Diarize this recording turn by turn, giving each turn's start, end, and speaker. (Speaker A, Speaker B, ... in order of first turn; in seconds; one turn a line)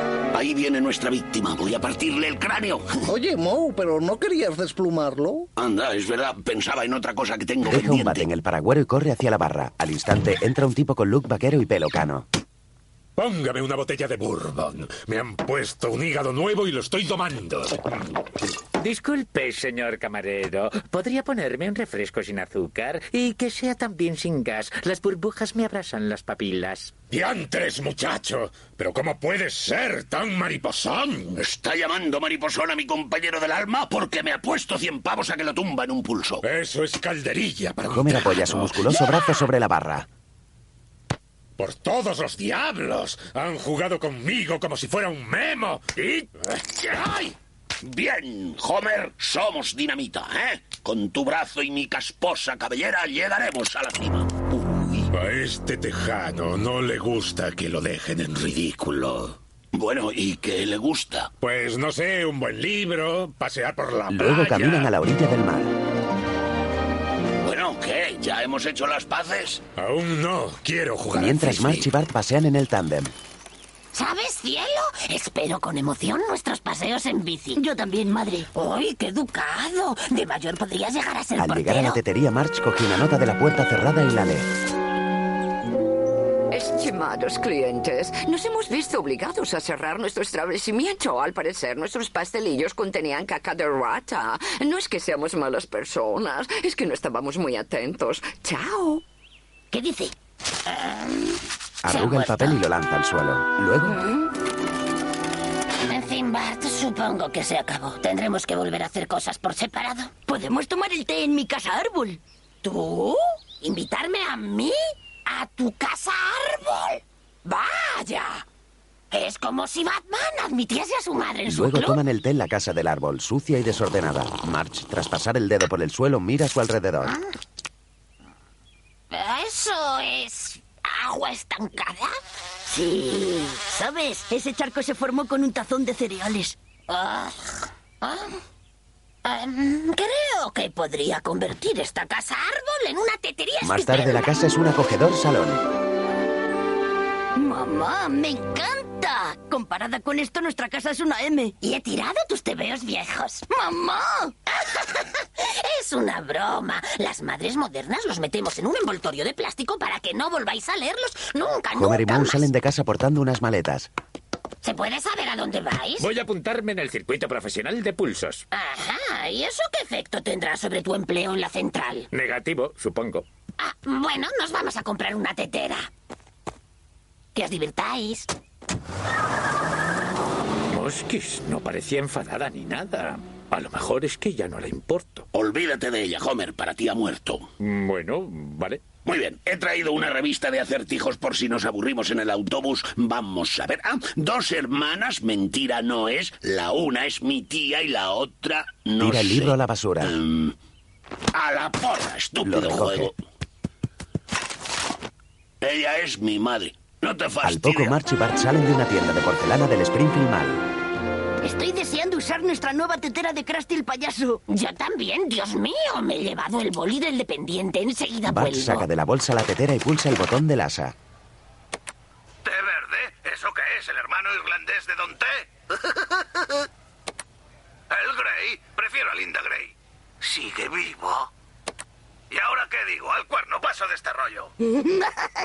Speaker A: 0.3-3.0
Speaker B: 3.1-5.5
Speaker A: 5.6-8.3
Speaker C: 7.7-12.3
Speaker D: 13.2-17.8
Speaker E: 18.8-26.9
Speaker D: 27.1-31.4
Speaker A: 31.4-36.4
Speaker D: 36.4-38.2
Speaker C: 37.9-40.1
Speaker D: 41.6-46.2
Speaker A: 46.6-55.1
Speaker D: 55.1-58.9
Speaker A: 58.8-61.3
Speaker D: 61.4-64.9
Speaker C: 64.1-65.7
Speaker A: 67.4-69.6
Speaker D: 69.8-71.9
Speaker C: 71.1-73.1
Speaker F: 73.9-77.6
Speaker G: 77.5-78.5
Speaker F: 78.6-82.0
Speaker C: 81.4-84.5
Speaker G: 86.5-94.8
Speaker H: 86.8-88.1
Speaker H: 89.6-90.3
Speaker H: 91.1-99.0
Speaker G: 95.7-96.5
Speaker G: 99.7-100.1
Speaker F: 100.8-101.4
Speaker C: 101.8-104.0
Speaker F: 101.9-102.6
Speaker G: 103.8-104.3
Speaker F: 105.9-110.1
Speaker G: 110.3-112.2
Speaker F: 112.6-118.4
Speaker F: 119.1-122.0
Speaker C: 121.5-127.2
Speaker F: 129.1-132.2
Speaker G: 132.7-136.6
Speaker F: 136.9-138.3
Speaker F: 139.2-144.3
Speaker C: 143.6-145.6
Speaker G: 147.3-151.5
Speaker F: 151.6-153.4
Speaker G: 153.5-154.3
Speaker F: 154.7-162.5
Speaker C: 161.7-163.9
Speaker F: 164.6-166.1
Speaker E: 166.0-168.4
Speaker F: 168.5-172.1
Speaker E: 172.1-173.3
Speaker F: 173.6-175.9
Speaker F: 177.3-178.3
Speaker E: 180.7-185.3
Speaker A: 185.3-187.4
Speaker E: 187.6-188.8
Speaker A: 189.1-200.6
Speaker C: 199.0-200.1
Speaker A: 201.3-203.2
Speaker C: 202.4-203.1
Speaker A: 205.6-208.0
Speaker C: 207.4-210.6
Speaker G: 211.4-214.4
Speaker F: 214.5-218.9
Speaker C: 218.2-220.9
Speaker I: 228.4-228.9
Speaker I: 232.5-234.3
Speaker G: 234.7-235.0